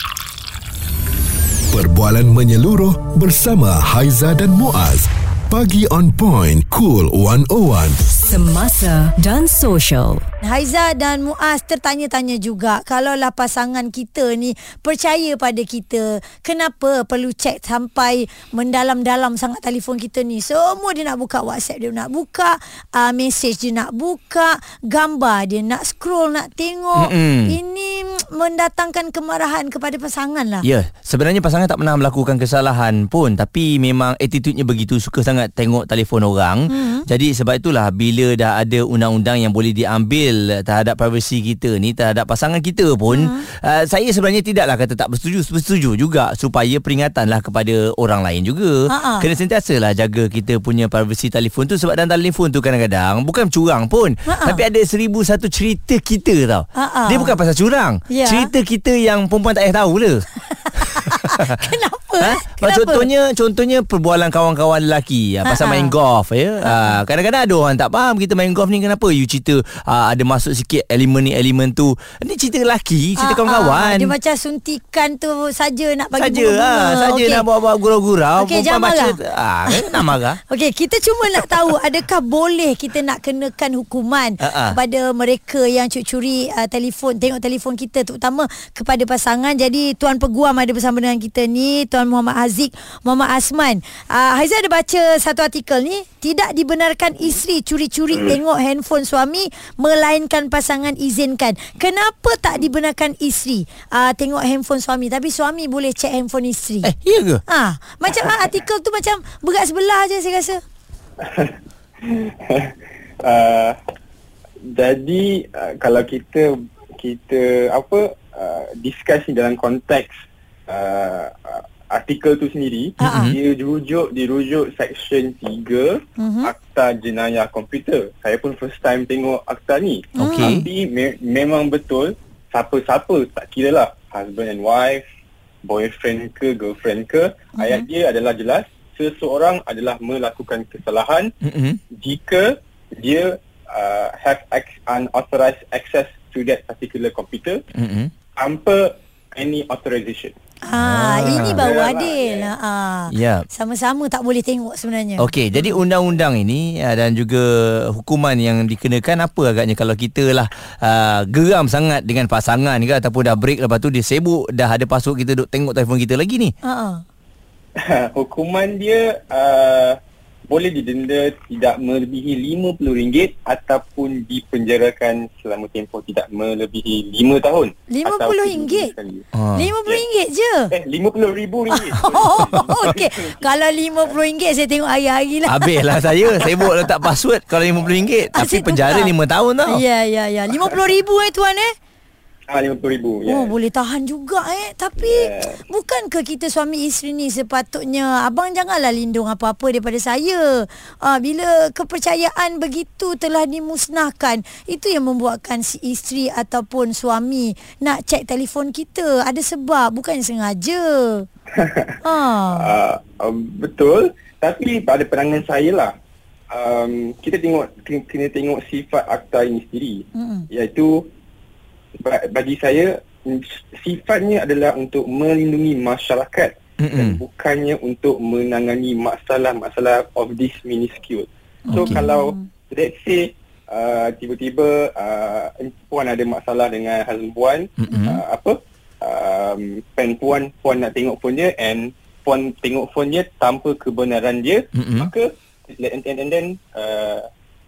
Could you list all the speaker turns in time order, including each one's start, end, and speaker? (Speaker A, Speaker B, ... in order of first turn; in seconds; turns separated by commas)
Speaker A: 1.7-8.0, Speaker B: 8.2-10.2, Speaker C: 10.4-30.7, Speaker D: 26.9-27.6, Speaker D: 30.6-60.3, Speaker C: 36.7-37.1, Speaker C: 43.1-43.4, Speaker C: 48.9-49.3, Speaker C: 54.3-54.6, Speaker C: 56.8-57.3, Speaker C: 58.1-58.5, Speaker C: 60.6-63.1, Speaker D: 60.8-61.5, Speaker D: 62.2-74.2, Speaker C: 65.5-66.0, Speaker C: 66.6-67.0, Speaker C: 73.2-77.5, Speaker D: 76.2-80.4, Speaker C: 78.4-79.2, Speaker C: 79.7-106.9, Speaker D: 84.4-84.8, Speaker D: 106.8-107.4, Speaker C: 107.5-110.6, Speaker E: 111.2-113.8, Speaker E: 114.7-120.1, Speaker E: 120.7-135.0, Speaker C: 123.0-123.3, Speaker D: 123.0-123.4, Speaker C: 126.2-126.5, Speaker C: 130.2-130.6, Speaker D: 130.2-130.6, Speaker E: 135.7-141.3, Speaker C: 137.6-137.9, Speaker D: 141.4-141.8, Speaker E: 142.0-147.6, Speaker D: 147.8-148.1, Speaker E: 148.4-150.3, Speaker C: 150.6-155.8, Speaker D: 150.8-151.7, Speaker E: 151.2-152.5, Speaker D: 153.1-153.5, Speaker D: 155.2-166.5, Speaker C: 166.6-167.0, Speaker E: 167.8-170.0, Speaker E: 170.5-179.2, Speaker C: 177.9-178.9, Speaker D: 179.4-179.7, Speaker C: 179.6-180.7, Speaker E: 180.7-183.5, Speaker C: 181.8-186.9, Speaker D: 185.5-189.8, Speaker C: 188.3-189.1, Speaker C: 189.7-191.7, Speaker E: 192.5-193.5, Speaker C: 193.3-211.3, Speaker E: 195.0-195.6, Speaker E: 211.6-212.0, Speaker C: 212.0-212.7, Speaker E: 212.5-215.9, Speaker E: 216.5-221.1, Speaker C: 220.2-220.4, Speaker E: 222.0-247.3, Speaker D: 226.8-227.2, Speaker C: 231.7-232.5, Speaker D: 231.7-232.0, Speaker D: 237.8-238.2, Speaker D: 244.8-245.1